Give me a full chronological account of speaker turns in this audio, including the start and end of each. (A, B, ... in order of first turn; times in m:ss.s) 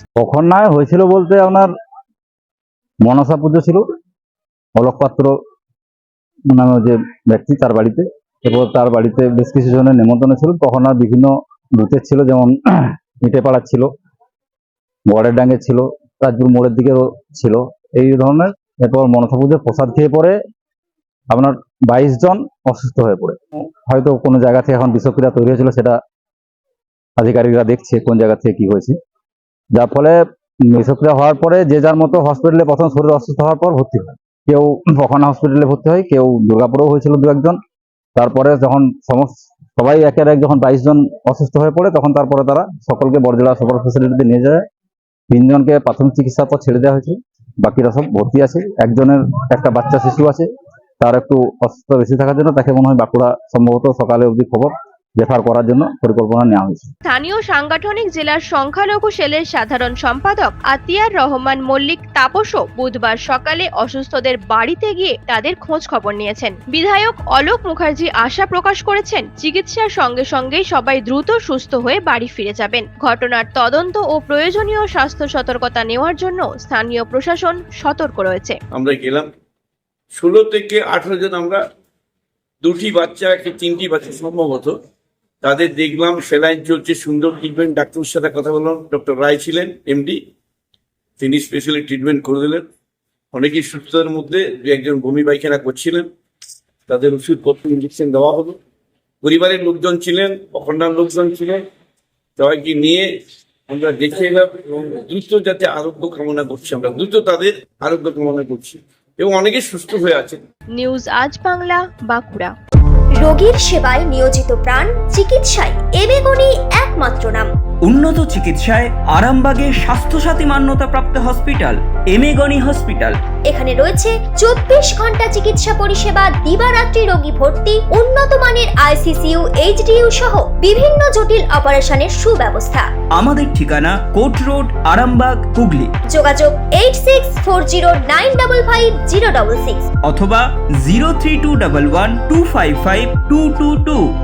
0:00.2-0:01.7 A
0:03.0-0:03.8 A
0:04.8-0:05.4 A
0:06.5-0:13.9 A
0:15.1-0:20.4 A
0:21.3-0:26.0 A
0:27.2-0:28.9 A
0:29.7-0:37.6 A
0:38.2-0:44.6 A
0:45.3-0:50.5 A
0:51.0-0:56.9 A
0:57.0-1:18.6 B
1:18.7-1:19.3 C
1:20.2-1:21.6 C
1:22.6-1:24.8 C
1:25.4-1:30.2 C
1:31.2-1:32.6 C
1:33.3-1:36.1 C
1:36.9-1:38.6 C
1:39.2-1:41.6 C
1:42.4-1:43.1 C
1:43.7-1:50.4 C
1:50.7-1:52.5 B
1:53.2-1:57.5 D
1:57.8-2:03.2 E
2:03.4-2:12.9 D
2:13.1-2:15.9 E
2:16.1-2:19.8 D
2:20.0-2:24.0 E